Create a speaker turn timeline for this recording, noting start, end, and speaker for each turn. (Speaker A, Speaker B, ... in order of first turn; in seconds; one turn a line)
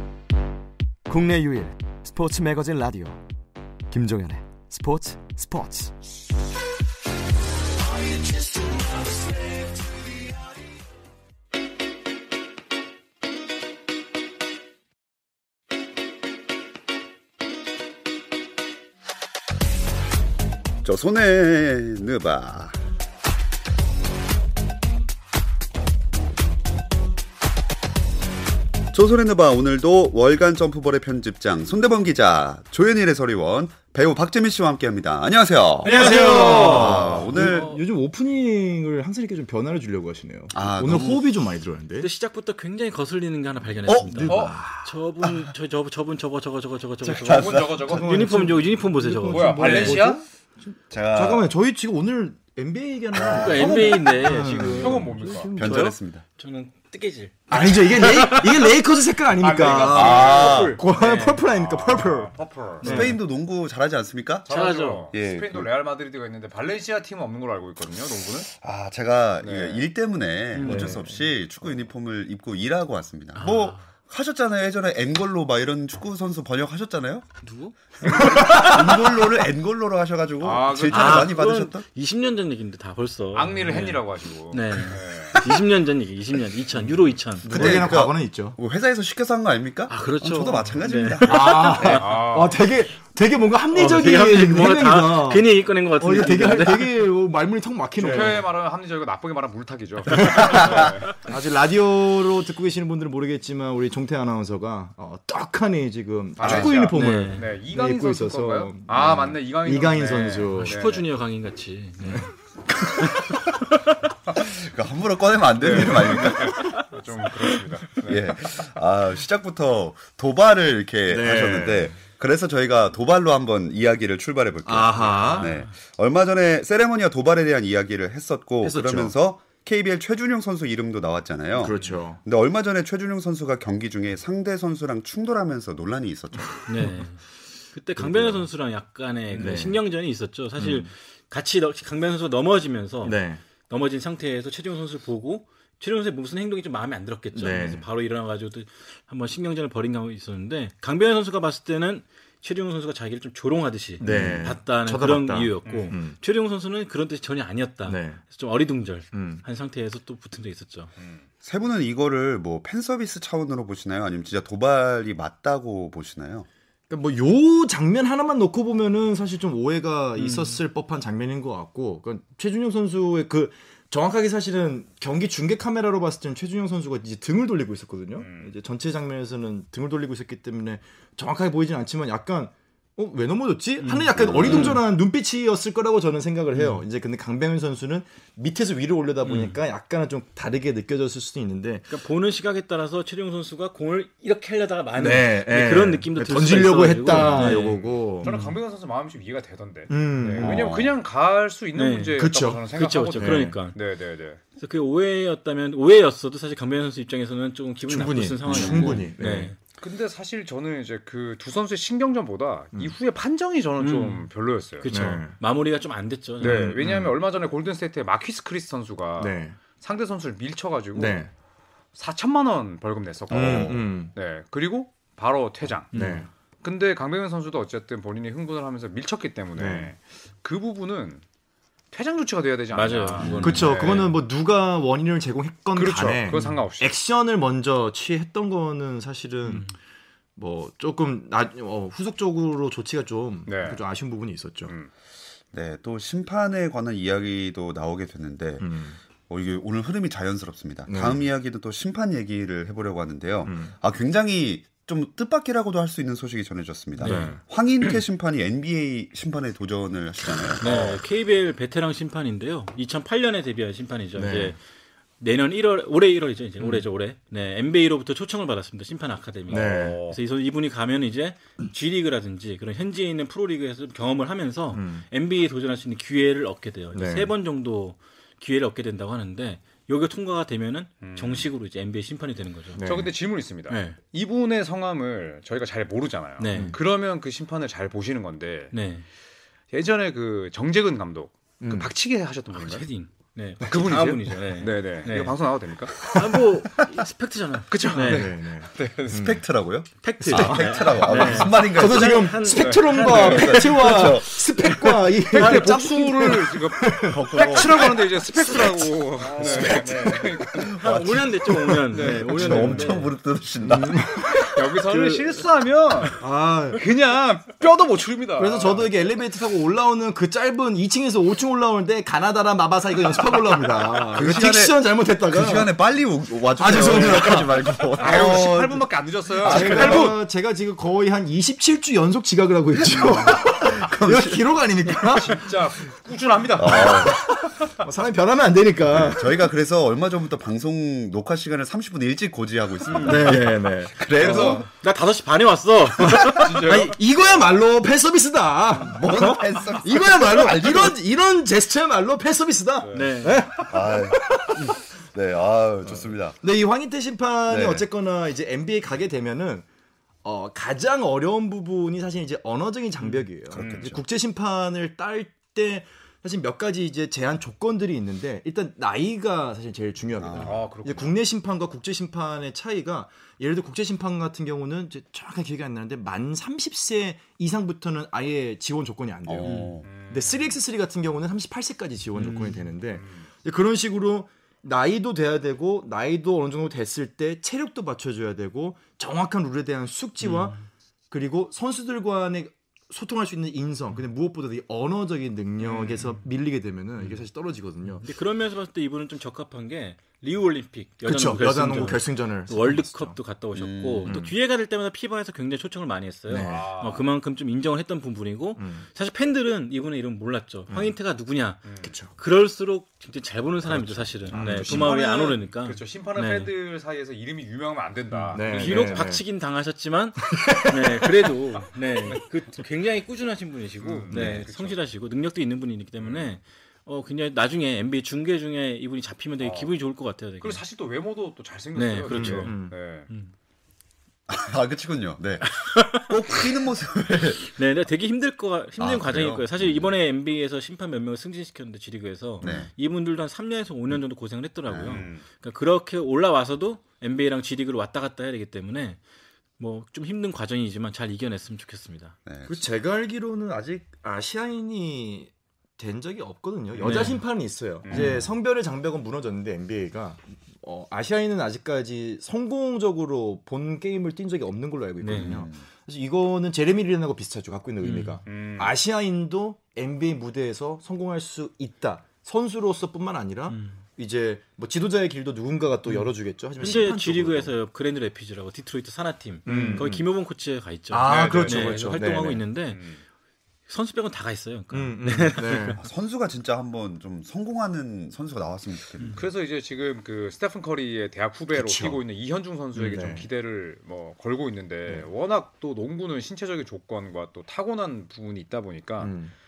Speaker A: 1.1-3.2
Speaker A: 3.9-5.9
Speaker A: 7.8-10.6
Speaker B: 20.8-22.8
Speaker B: 28.9-37.8
Speaker C: 35.8-37.8
Speaker D: 35.8-42.1
Speaker E: 36.4-36.8
Speaker B: 40.5-41.3
Speaker C: 42.0-50.1
Speaker B: 43.9-45.4
Speaker D: 44.1-44.7
Speaker E: 44.2-44.6
Speaker B: 47.0-48.0
Speaker E: 47.2-48.1
Speaker D: 47.8-50.2
Speaker E: 49.3-50.2
Speaker B: 50.9-51.5
Speaker D: 51.1-55.9
Speaker B: 53.1-53.8
Speaker C: 53.3-58.6
Speaker E: 54.6-55.5
Speaker B: 55.5-56.2
Speaker D: 57.5-63.2
Speaker E: 59.4-60.8
Speaker C: 59.7-61.4
Speaker B: 59.8-60.8
Speaker E: 61.5-63.0
Speaker C: 62.8-63.2
Speaker B: 62.8-64.5
Speaker E: 64.5-68.5
Speaker C: 64.5-65.0
Speaker B: 65.1-65.7
Speaker B: 68.6-77.3
Speaker E: 69.4-69.8
Speaker C: 70.5-71.0
Speaker D: 70.6-71.2
Speaker C: 73.4-73.8
Speaker C: 77.4-79.0
Speaker B: 78.0-81.8
Speaker E: 80.4-81.3
Speaker C: 80.9-87.9
Speaker E: 83.3-85.4
Speaker D: 87.4-88.6
Speaker B: 87.4-91.5
Speaker C: 89.9-92.0
Speaker E: 91.2-92.6
Speaker D: 91.3-98.5
Speaker C: 93.7-97.0
Speaker E: 98.0-101.1
Speaker D: 100.2-110.8
Speaker E: 106.4-111.0
Speaker B: 106.4-106.8
Speaker C: 106.9-107.5
Speaker C: 110.6-112.3
Speaker B: 113.0-113.4
Speaker B: 114.3-116.8
Speaker E: 115.6-118.3
Speaker B: 118.0-136.7
Speaker D: 121.1-121.9
Speaker D: 124.7-125.5
Speaker C: 125.0-125.6
Speaker D: 128.6-129.1
Speaker D: 131.6-132.2
Speaker C: 136.7-160.9
Speaker D: 138.0-138.5
Speaker D: 139.3-139.8
Speaker D: 140.6-140.9
Speaker D: 143.0-143.4
Speaker D: 147.3-147.8
Speaker D: 154.0-156.2
Speaker B: 154.0-154.6
Speaker E: 155.7-155.9
Speaker D: 157.9-158.2
Speaker D: 159.1-159.4
Speaker B: 161.4-166.5
Speaker D: 166.9-191.9
Speaker C: 170.2-170.6
Speaker E: 178.2-178.5
Speaker C: 183.8-184.7
Speaker B: 184.2-184.8
Speaker E: 184.4-184.8
Speaker C: 186.6-186.8
Speaker C: 189.2-189.6
Speaker C: 191.9-198.6
Speaker D: 195.0-198.3
Speaker E: 197.2-204.4
Speaker D: 199.9-200.7
Speaker B: 200.4-200.9
Speaker C: 201.8-203.8
Speaker D: 202.2-202.6
Speaker D: 203.2-203.6
Speaker C: 204.6-209.6
Speaker D: 207.9-209.5
Speaker B: 208.5-209.0
Speaker E: 209.8-214.9
Speaker C: 213.8-216.8
Speaker D: 214.9-215.3
Speaker E: 216.4-221.2
Speaker D: 216.4-217.1
Speaker D: 219.2-219.6
Speaker D: 220.9-221.3
Speaker E: 221.9-226.0
Speaker D: 223.3-224.1
Speaker B: 223.3-223.8
Speaker C: 225.9-226.3
Speaker D: 225.9-226.3
Speaker E: 226.6-231.2
Speaker D: 229.6-229.9
Speaker E: 231.9-234.2
Speaker C: 232.7-234.2
Speaker D: 233.2-239.8
Speaker E: 235.8-237.0
Speaker C: 236.3-236.6
Speaker C: 239.5-239.7
Speaker D: 240.4-244.7
Speaker E: 243.5-243.8
Speaker B: 245.5-248.8
Speaker D: 248.6-249.0
Speaker B: 249.3-261.0
Speaker D: 250.9-251.2
Speaker D: 253.4-253.7
Speaker C: 257.0-257.3
Speaker D: 257.0-257.4
Speaker C: 260.6-264.6
Speaker D: 264.2-264.6
Speaker C: 265.2-282.8
Speaker D: 269.5-270.0
Speaker E: 269.5-270.2
Speaker D: 274.7-275.0
Speaker D: 276.9-277.3
Speaker E: 281.0-281.5
Speaker D: 282.7-283.1
Speaker E: 282.8-288.7
Speaker C: 283.7-284.0
Speaker C: 286.4-286.8
Speaker D: 286.5-286.8
Speaker C: 288.7-289.1
Speaker E: 289.7-292.9
Speaker D: 291.6-291.9
Speaker C: 292.5-295.4
Speaker E: 293.6-296.1
Speaker C: 296.0-298.3
Speaker E: 297.7-299.4
Speaker D: 298.0-299.4
Speaker B: 299.1-302.4
Speaker C: 300.0-303.6
Speaker D: 300.2-307.9
Speaker E: 302.5-303.6
Speaker B: 303.0-304.5
Speaker E: 304.7-310.8
Speaker C: 305.4-305.7
Speaker B: 307.1-308.0
Speaker D: 308.5-310.8
Speaker C: 309.4-310.1
Speaker B: 310.6-311.4
Speaker C: 310.7-313.1
Speaker E: 311.9-312.9
Speaker B: 312.0-314.2
Speaker D: 313.6-315.2
Speaker E: 314.4-318.9
Speaker C: 314.9-315.2
Speaker D: 316.1-316.8
Speaker D: 318.4-325.7
Speaker B: 324.1-328.8
Speaker D: 326.6-328.7
Speaker E: 326.8-327.4
Speaker E: 328.0-330.2
Speaker D: 329.4-335.6
Speaker B: 329.4-330.2
Speaker B: 332.8-334.5
Speaker E: 335.0-337.2
Speaker B: 336.6-337.2
Speaker D: 336.8-339.4
Speaker B: 338.9-344.7
Speaker C: 342.9-343.2
Speaker D: 343.0-344.6
Speaker E: 344.1-344.7
Speaker C: 344.6-346.6
Speaker D: 346.0-354.7
Speaker E: 346.3-347.5
Speaker B: 349.0-351.0
Speaker E: 352.8-353.3
Speaker C: 352.9-353.5
Speaker B: 353.7-356.4
Speaker D: 355.9-359.6
Speaker B: 357.5-357.9
Speaker D: 360.2-390.6
Speaker B: 363.5-364.0
Speaker E: 363.5-364.0
Speaker B: 370.2-370.6
Speaker E: 370.4-371.2
Speaker B: 379.3-379.9
Speaker C: 379.4-379.7
Speaker E: 379.8-380.5
Speaker C: 382.2-382.7
Speaker E: 382.9-383.3
Speaker C: 390.2-390.6
Speaker D: 391.1-398.1
Speaker E: 395.6-396.2
Speaker C: 398.0-416.5
Speaker D: 401.0-403.2
Speaker B: 403.5-404.3
Speaker D: 406.3-406.7
Speaker E: 406.4-407.1
Speaker D: 408.6-408.9
Speaker E: 411.6-411.9
Speaker D: 411.8-412.1
Speaker E: 413.7-419.1
Speaker D: 414.3-414.9
Speaker D: 418.3-419.2
Speaker C: 418.3-430.6
Speaker D: 420.3-421.0
Speaker E: 423.8-424.8
Speaker D: 424.1-424.4
Speaker E: 426.0-426.3
Speaker E: 429.4-429.7
Speaker E: 430.4-433.1
Speaker C: 431.8-433.3
Speaker D: 432.1-432.8
Speaker B: 434.3-437.6
Speaker C: 435.4-436.1
Speaker C: 437.5-449.0
Speaker B: 438.8-439.9
Speaker B: 442.4-442.7
Speaker B: 444.7-445.1
Speaker E: 444.9-445.2
Speaker C: 449.6-452.1
Speaker B: 452.3-452.6
Speaker D: 452.5-477.5
Speaker E: 456.8-457.2
Speaker C: 456.8-457.2
Speaker E: 457.8-458.2
Speaker B: 457.9-458.3
Speaker C: 465.0-465.4
Speaker B: 465.1-465.6
Speaker C: 467.8-468.2
Speaker E: 468.3-468.8
Speaker C: 473.5-473.8
Speaker C: 475.9-482.9
Speaker E: 479.5-480.0
Speaker D: 479.5-480.0
Speaker D: 480.9-482.4
Speaker E: 481.1-482.0
Speaker E: 482.7-483.0
Speaker C: 483.7-485.8
Speaker D: 484.7-485.8
Speaker B: 485.8-489.2
Speaker E: 489.1-499.1
Speaker D: 491.5-492.0
Speaker D: 492.8-493.3
Speaker D: 499.0-499.3